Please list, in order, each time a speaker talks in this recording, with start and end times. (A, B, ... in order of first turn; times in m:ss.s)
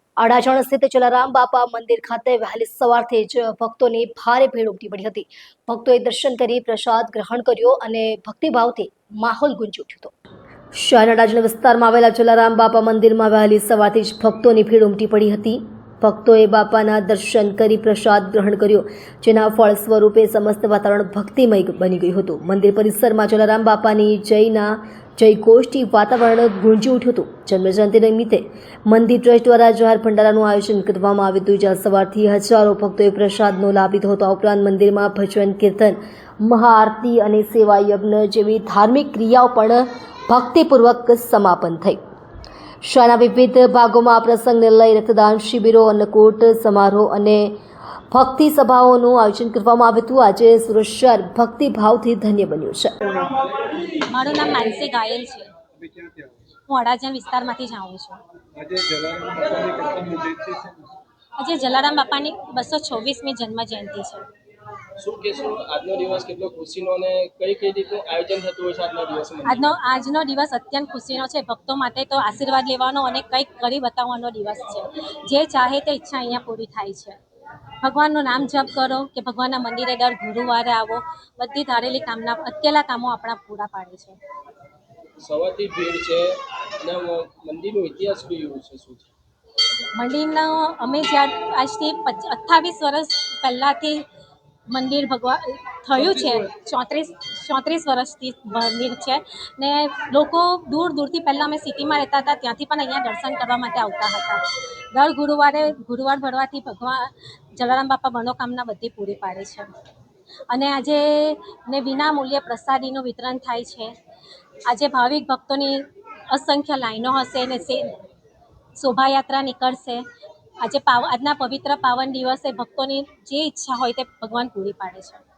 0:00.2-0:10.1 A
0:10.8-0:42.0 A
0:42.8-0:47.6 A
0:48.1-0:52.9 A
0:54.1-0:55.5 B
0:55.8-0:56.4 C
0:56.7-0:58.2 B
0:58.6-0:59.3 C
0:58.9-0:59.9 D
1:00.0-1:00.9 C
1:01.4-1:04.2 B
1:05.0-1:09.6 D
1:09.4-1:17.2 B
1:17.8-1:24.2 B
1:25.2-1:29.1 D
1:29.9-1:34.0 B
1:34.7-1:49.7 B
1:36.0-1:36.4 D
1:50.5-1:53.9 B
1:54.7-1:57.9 B
1:58.8-2:00.0 B
2:00.6-2:05.2 B